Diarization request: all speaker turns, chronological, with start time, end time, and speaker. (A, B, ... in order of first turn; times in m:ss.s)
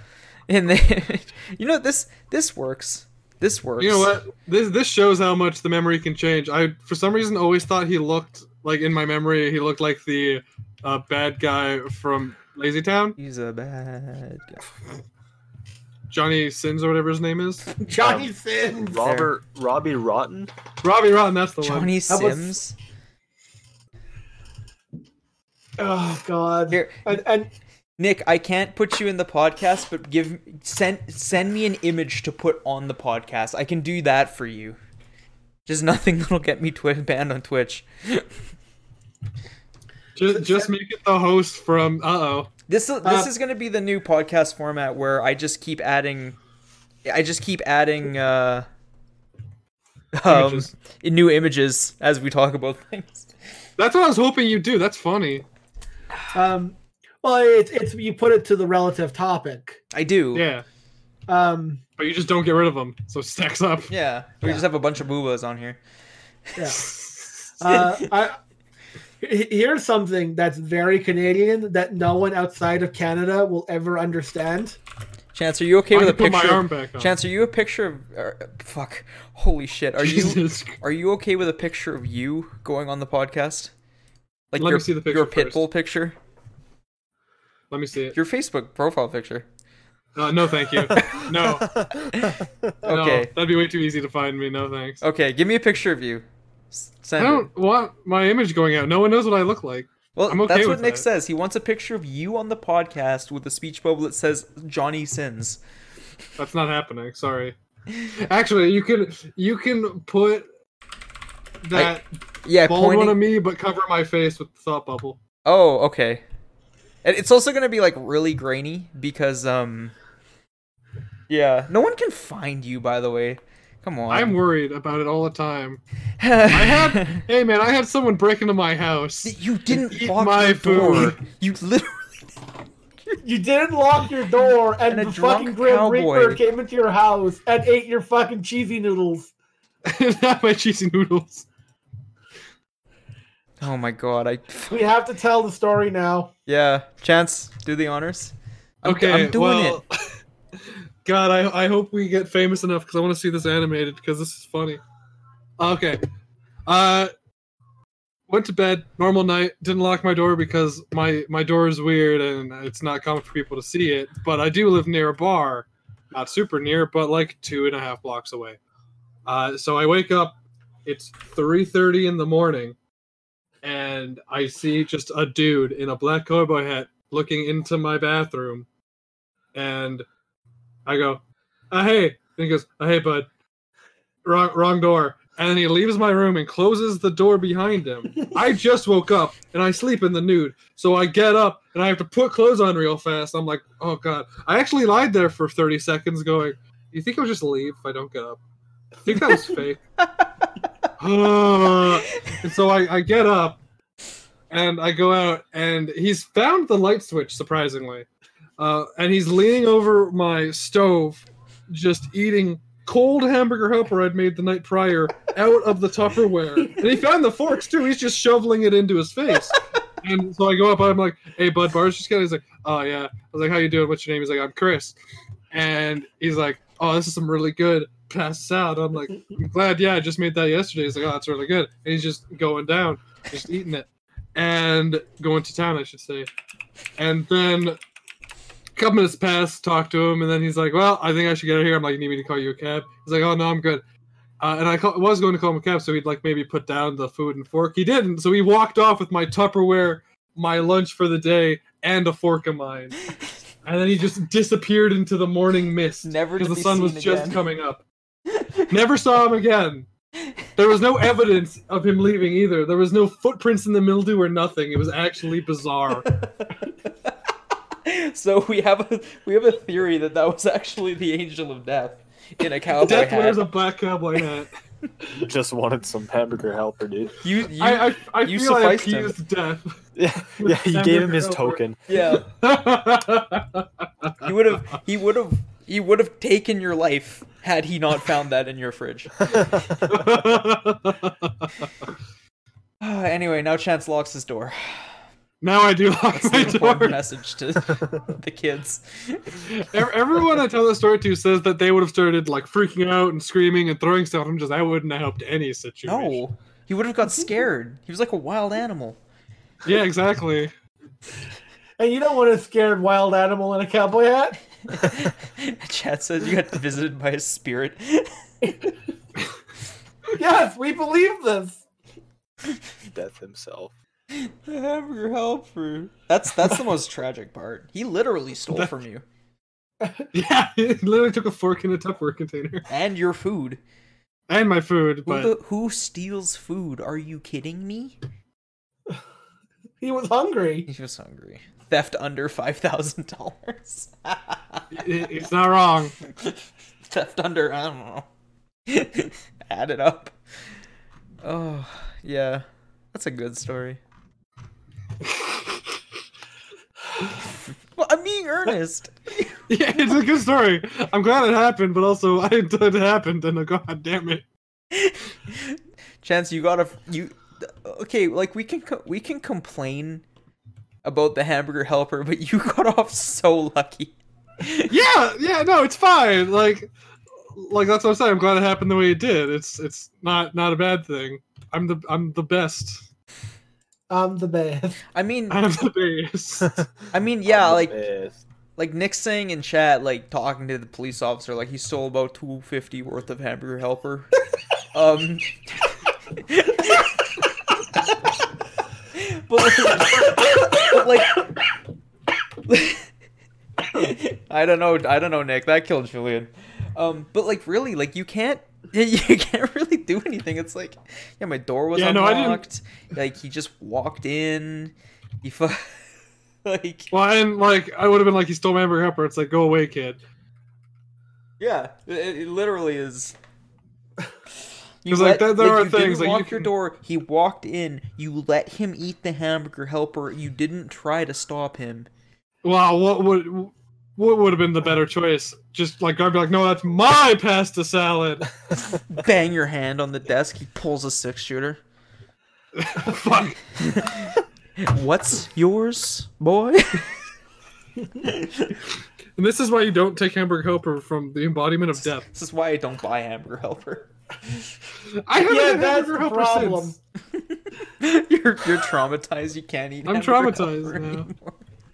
0:00.5-0:04.1 A
0:03.8-0:13.2 B
0:13.2-0:14.6 A
0:16.1-0:17.7 B
0:17.8-0:18.9 C
0:18.0-0:20.5 D
0:18.9-0:19.3 A
0:20.8-0:21.9 B
0:21.6-0:22.8 A
0:22.1-0:22.6 C
0:25.8-0:27.5 C
0:26.7-0:27.0 A
0:28.0-0:34.8 A
0:35.6-0:38.3 A
0:40.2-0:42.5 B
0:42.7-0:46.4 A
0:43.0-0:43.3 C
0:47.0-0:48.7 A
0:50.1-0:53.3 A
0:50.3-0:50.7 B
0:53.8-0:55.4 B
0:56.3-0:59.8 C
0:59.9-1:00.4 A
1:00.3-1:00.6 B
1:01.3-1:01.8 C
1:02.0-1:03.9 B
1:03.9-1:05.8 A
1:06.6-1:06.8 C
1:06.8-1:07.3 B
1:07.6-1:08.4 C
1:07.6-1:08.1 A
1:09.2-1:14.8 C
1:15.3-1:23.7 A
1:15.9-1:17.1 B
1:20.0-1:20.8 B
1:24.5-1:26.2 A
1:24.6-1:25.6 B
1:27.7-1:28.1 B
1:28.1-1:29.5 A
1:30.2-1:31.8 B
1:30.9-1:32.7 D
1:32.2-1:33.3 A
1:32.8-1:35.0 B
1:35.0-1:37.5 A
1:37.2-1:41.0 B
1:40.2-1:45.6 A
1:46.4-1:47.6 B
1:48.1-1:50.5 B
1:51.6-1:52.0 B
1:51.7-1:53.2 A
1:52.6-1:55.2 B
1:55.4-1:56.2 A
1:57.0-1:59.9 A
2:01.3-2:04.4 A
2:04.1-2:05.8 B
2:06.2-2:07.3 A
2:06.5-2:11.2 B
2:09.2-2:12.0 A
2:13.2-2:19.3 C
2:14.9-2:16.4 A
2:19.8-2:21.4 B
2:23.6-2:24.9 A
2:24.7-2:26.3 C
2:26.5-2:29.8 A
2:28.8-2:34.8 B
2:35.6-2:36.0 B
2:36.6-2:37.1 B
2:38.3-2:48.6 B
2:49.3-2:52.8 B
2:53.6-2:58.7 B
2:59.5-3:00.0 B
3:00.8-3:03.3 B
3:04.2-3:18.4 B
3:19.0-3:19.8 B
3:21.0-3:23.6 B
3:24.5-3:28.0 B
3:28.6-3:45.0 B
3:45.5-3:56.3 B
3:57.0-3:57.8 B
3:58.8-4:03.8 B
4:04.4-4:13.0 B
4:13.6-4:17.8 B
4:16.0-4:17.4 A
4:18.4-4:18.6 A
4:18.7-4:19.9 B
4:20.6-4:26.1 B
4:26.2-4:27.1 A
4:27.8-4:33.5 A
4:32.7-4:34.5 B
4:35.1-4:37.2 D
4:37.2-4:39.1 A
4:37.6-4:39.8 B
4:40.0-4:41.8 D
4:40.4-4:44.3 B
4:41.9-4:42.3 A
4:44.2-4:49.6 A
4:49.2-4:50.0 D
4:49.9-4:51.7 B
4:52.8-4:54.9 A
4:55.4-4:57.0 B
4:56.1-4:59.5 A
4:59.4-5:06.2 B
5:05.8-5:09.0 A
5:09.6-5:10.5 B
5:11.8-5:14.4 C
5:14.7-5:18.6 A
5:20.2-5:21.6 C
5:22.8-5:23.7 D
5:24.1-5:29.0 A
5:29.8-5:30.1 C
5:30.1-5:32.7 B
5:32.7-5:33.6 A
5:34.3-5:35.3 B
5:35.0-5:38.0 A
5:39.8-5:40.7 C
5:40.7-5:44.6 A
5:44.7-5:45.9 B
5:46.1-5:48.1 A
5:48.7-5:50.1 A
5:51.2-5:53.8 A
5:57.8-5:59.4 A
5:59.5-6:04.2 B
6:04.7-6:10.0 A
6:10.8-6:14.7 A
6:14.7-6:16.7 B
6:17.3-6:22.9 B
6:23.9-6:24.8 C
6:24.9-6:25.4 A
6:25.3-6:26.7 B
6:26.9-6:27.8 A
6:27.3-6:28.2 D
6:28.6-6:34.1 A
6:34.7-6:37.0 A
6:38.9-6:41.3 A
6:42.5-6:42.9 A
6:43.7-6:55.9 A
6:51.7-6:52.4 B
6:56.4-6:56.9 A
6:56.9-7:00.0 B
7:01.4-7:03.2 A
7:04.8-7:11.9 A
7:04.9-7:06.5 B
7:12.4-7:18.3 B
7:18.7-7:21.6 A
7:22.6-7:23.5 B
7:23.6-7:26.9 A
7:28.0-7:28.5 A
7:29.2-7:32.0 B
7:31.8-7:34.5 A
7:35.0-7:36.7 B
7:35.2-7:36.8 C
7:37.1-7:41.4 A
7:39.8-7:41.1 B